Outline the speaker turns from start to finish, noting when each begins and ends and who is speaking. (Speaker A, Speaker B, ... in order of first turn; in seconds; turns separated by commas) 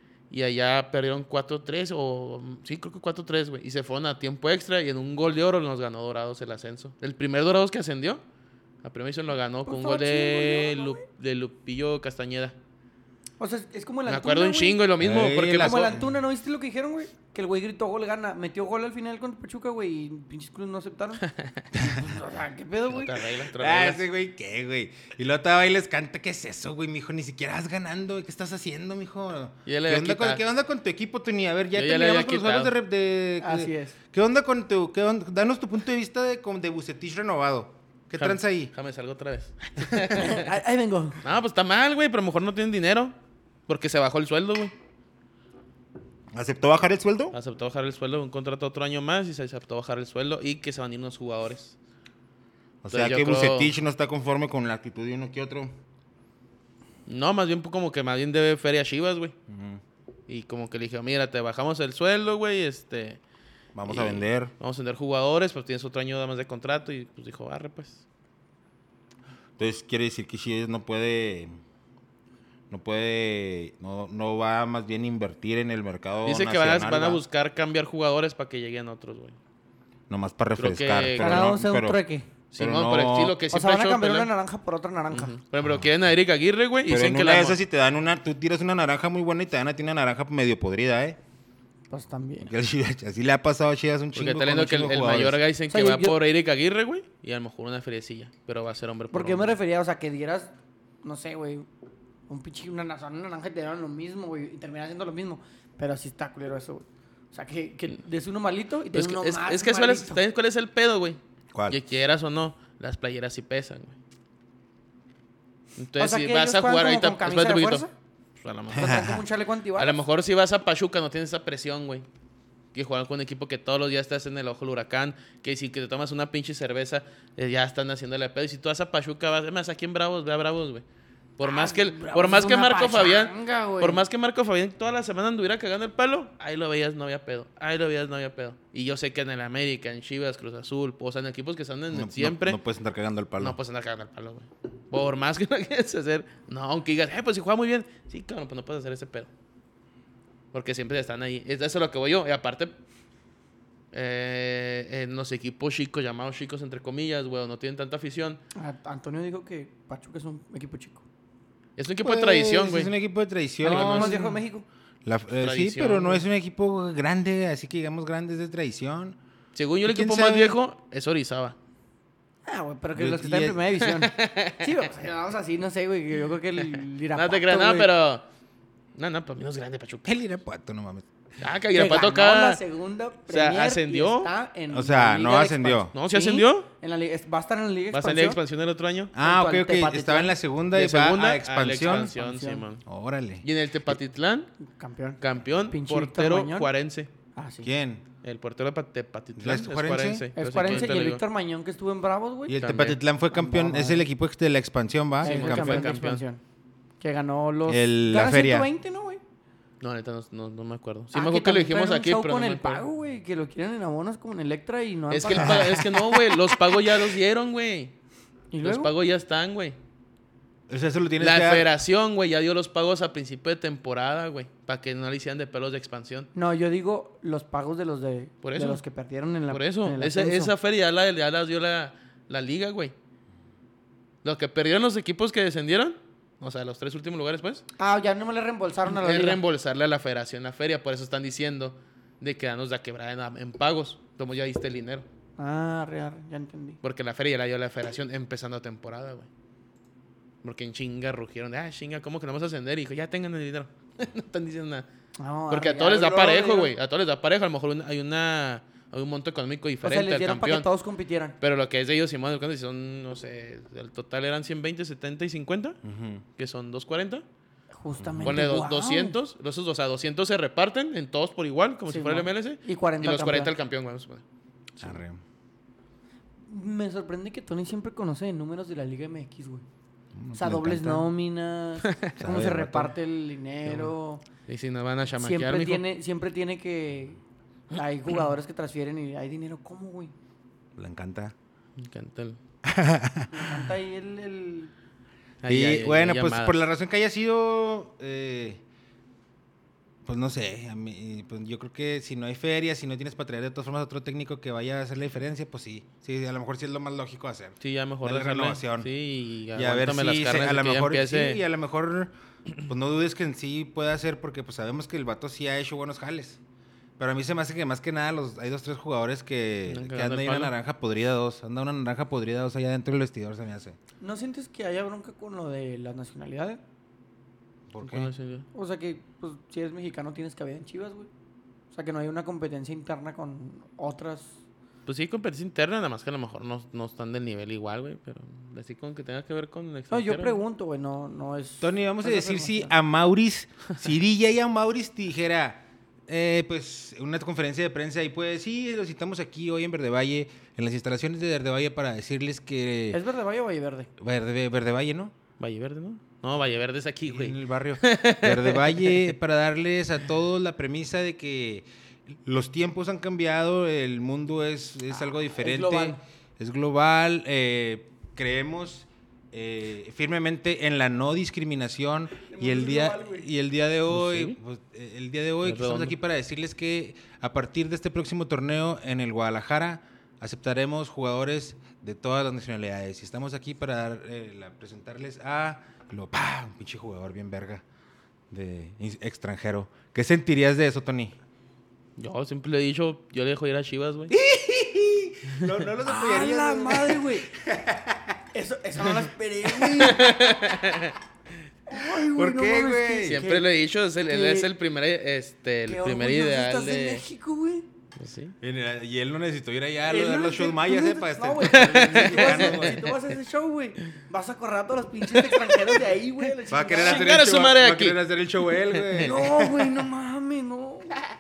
Speaker A: 0.3-8.2, Speaker A: 8.8-12.6, Speaker B: 9.7-11.0, Speaker B: 13.4-14.8, Speaker A: 14.1-16.0, Speaker C: 15.0-16.0, Speaker B: 15.5-23.2, Speaker A: 21.2-21.7, Speaker A: 22.9-24.0, Speaker C: 23.5-38.7, Speaker A: 29.7-30.4, Speaker A: 31.8-32.7, Speaker B: 33.4-34.0, Speaker A: 38.2-40.5, Speaker C: 39.9-40.1, Speaker B: 40.1-41.2, Speaker A: 41.2-43.1, Speaker A: 43.7-44.7, Speaker C: 46.3-47.4, Speaker A: 47.3-51.8, Speaker C: 52.8-55.8, Speaker A: 52.9-53.7, Speaker A: 57.1-59.4, Speaker C: 59.5-59.8, Speaker A: 60.3-63.2, Speaker C: 63.8-64.5, Speaker A: 63.9-68.0, Speaker C: 69.6-71.5, Speaker C: 72.7-77.2, Speaker A: 76.2-79.4, Speaker C: 80.1-82.0, Speaker A: 80.6-81.5, Speaker B: 81.2-82.3, Speaker A: 82.5-84.3, Speaker C: 82.6-83.4, Speaker B: 83.5-85.3, Speaker A: 85.1-87.6, Speaker C: 86.9-91.2, Speaker B: 91.9-92.5, Speaker C: 92.4-95.4, Speaker A: 94.2-99.6, Speaker B: 95.7-96.2, Speaker B: 99.1-101.7, Speaker B: 102.3-110.2, Speaker A: 108.9-114.0, Speaker A: 115.8-117.9, Speaker B: 116.0-117.9, Speaker A: 118.4-119.0, Speaker B: 118.7-120.0, Speaker C: 118.7-119.2, Speaker A: 119.8-122.1, Speaker A: 122.7-130.8, Speaker A: 131.4-142.6, Speaker B: 131.4-134.0, Speaker C: 141.9-143.6, Speaker A: 143.4-149.3, Speaker A: 150.5-152.8, Speaker A: 153.9-158.4, Speaker B: 158.6-161.1, Speaker A: 161.8-162.9, Speaker C: 162.0-164.2, Speaker A: 163.6-164.4, Speaker B: 163.6-164.7, Speaker C: 165.1-169.2, Speaker A: 165.4-166.2, Speaker A: 169.6-171.6, Speaker C: 169.8-170.6, Speaker B: 172.5-177.9, Speaker C: 173.0-173.7, Speaker A: 173.8-174.7, Speaker A: 177.1-178.3, Speaker A: 178.9-180.1, Speaker C: 180.1-181.1, Speaker A: 181.4-182.6, Speaker B: 181.7-188.4, Speaker A: 183.3-184.3, Speaker C: 184.7-185.9, Speaker A: 185.9-186.7, Speaker A: 187.9-189.1, Speaker C: 189.1-192.1, Speaker B: 189.2-190.4, Speaker A: 190.7-192.8, Speaker B: 191.8-192.7, Speaker C: 192.9-193.9, Speaker A: 193.4-194.5, Speaker B: 194.6-196.7, Speaker A: 195.2-197.1, Speaker B: 197.3-197.7, Speaker C: 197.6-198.0, Speaker A: 198.2-201.2, Speaker C: 199.4-200.3, Speaker B: 200.4-202.6, Speaker C: 202.5-205.9, Speaker A: 202.6-203.0, Speaker B: 203.3-204.1, Speaker B: 205.2-206.4, Speaker A: 205.2-206.2, Speaker B: 207.0-209.2, Speaker C: 207.7-208.7, Speaker A: 209.8-212.8, Speaker B: 211.1-215.8, Speaker A: 215.1-217.9, Speaker C: 215.3-216.2, Speaker B: 218.5-218.9, Speaker A: 218.6-219.8, Speaker C: 220.7-221.7, Speaker A: 221.2-226.3, Speaker B: 226.3-230.5, Speaker A: 228.4-228.8, Speaker A: 229.5-232.9, Speaker A: 234.2-237.6, Speaker B: 237.8-239.4, Speaker A: 238.9-245.1, Speaker B: 245.4-246.8, Speaker A: 246.8-249.3, Speaker A: 250.4-254.9, Speaker B: 255.2-256.7, Speaker A: 255.5-260.7, Speaker B: 259.8-261.4, Speaker A: 261.4-265.8, Speaker C: 265.8-266.2, Speaker A: 266.4-267.2, Speaker B: 267.7-269.2, Speaker C: 268.0-268.4, Speaker A: 268.2-274.2, Speaker B: 271.9-273.5, Speaker C: 274.8-275.2, Speaker B: 276.5-279.6, Speaker C: 280.1-281.1, Speaker B: 280.3-284.2, Speaker A: 281.8-282.2, Speaker C: 282.2-282.9, Speaker A: 283.7-283.9, Speaker A: 284.5-285.8, Speaker B: 285.2-287.2, Speaker B: 287.7-290.1, Speaker C: 290.8-291.3, Speaker A: 291.8-292.4, Speaker C: 292.6-293.6, Speaker B: 293.3-294.7, Speaker A: 295.4-296.6, Speaker C: 295.5-298.6, Speaker C: 300.1-308.9, Speaker A: 307.6-311.4, Speaker C: 309.5-312.1, Speaker C: 312.6-316.4, Speaker C: 317.0-323.8, Speaker A: 319.7-320.5, Speaker B: 324.0-326.6, Speaker C: 327.7-328.1, Speaker A: 327.8-328.5, Speaker B: 328.5-331.1, Speaker B: 331.7-334.4, Speaker A: 334.9-340.4, Speaker B: 339.9-342.7, Speaker C: 341.6-353.0, Speaker B: 352.9-353.9, Speaker C: 354.0-355.1, Speaker A: 355.4-359.1, Speaker C: 357.1-387.6, Speaker B: 365.0-366.0, Speaker B: 372.2-373.3, Speaker A: 373.9-374.4, Speaker A: 375.4-376.0, Speaker C: 388.3-391.1, Speaker A: 392.0-394.1, Speaker C: 394.1-398.2, Speaker B: 395.8-397.3, Speaker B: 398.3-400.2, Speaker A: 399.7-401.0, Speaker B: 401.7-403.5, Speaker C: 401.9-403.2, Speaker A: 403.1-407.0, Speaker B: 404.1-404.5, Speaker B: 405.7-407.7, Speaker A: 408.0-408.4, Speaker C: 408.4-412.9, Speaker B: 409.9-417.2, Speaker A: 411.5-412.9, Speaker A: 415.1-415.8, Speaker C: 416.5-419.8, Speaker A: 416.8-419.2, Speaker B: 419.0-421.0